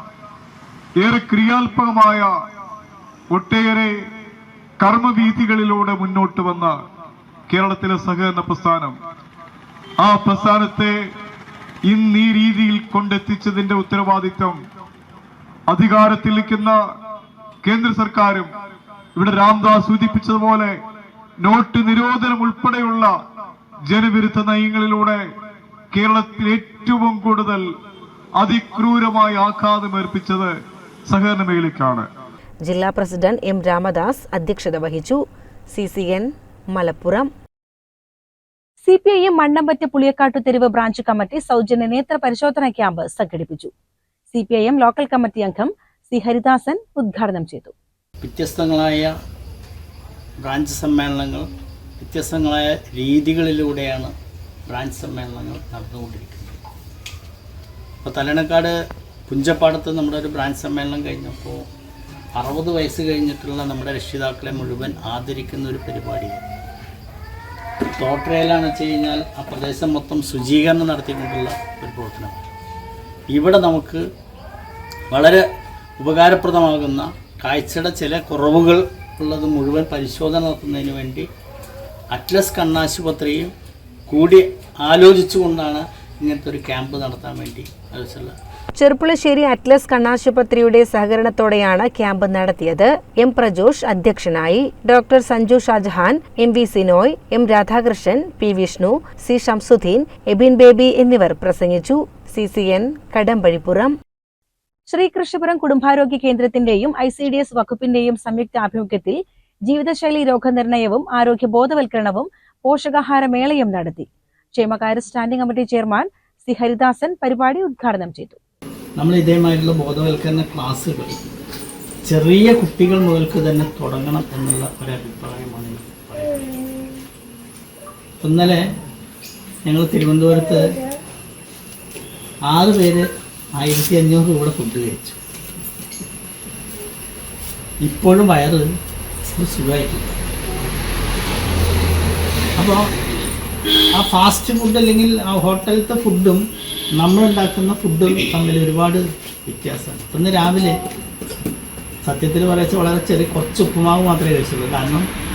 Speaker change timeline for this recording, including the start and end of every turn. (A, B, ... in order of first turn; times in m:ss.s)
0:01.0-0:02.3 A
0:03.3-0:03.9 A
0:04.8-0:06.7 A
0:07.5-0:08.9 A
0:10.0-0:11.0 A
0:11.9-0:14.6 A
0:15.7-0:16.8 A
0:17.6-0:18.5 A
0:19.2-0:20.7 A
0:21.4-0:23.2 A
0:23.9-0:25.2 A
0:25.9-0:27.6 A
0:28.4-0:30.5 A
0:31.1-0:32.0 A
0:32.6-0:37.3 B
0:38.8-0:43.7 C
0:44.3-0:47.7 C
0:48.2-0:49.2 D
0:50.4-0:51.5 D
0:52.0-0:54.1 D
0:54.7-0:56.6 D
0:58.0-0:58.7 D
0:59.3-1:01.7 D
1:02.4-1:06.4 D
1:08.0-1:12.4 D
1:13.3-1:14.0 D
1:15.1-1:15.4 D
1:16.0-1:21.3 D
1:22.1-1:23.5 D
1:24.1-1:28.3 D
1:28.8-1:43.9 B
1:44.9-1:58.4 C
1:59.0-2:01.2 D
2:02.0-2:06.4 D
2:08.2-2:08.6 D
2:09.6-2:10.8 D
2:12.5-2:13.0 D
2:13.6-2:15.2 D
2:17.8-2:18.7 D
2:19.3-2:20.2 D
2:22.6-2:22.9 D
2:24.0-2:26.4 D
2:27.0-2:30.8 D
2:32.0-2:35.1 D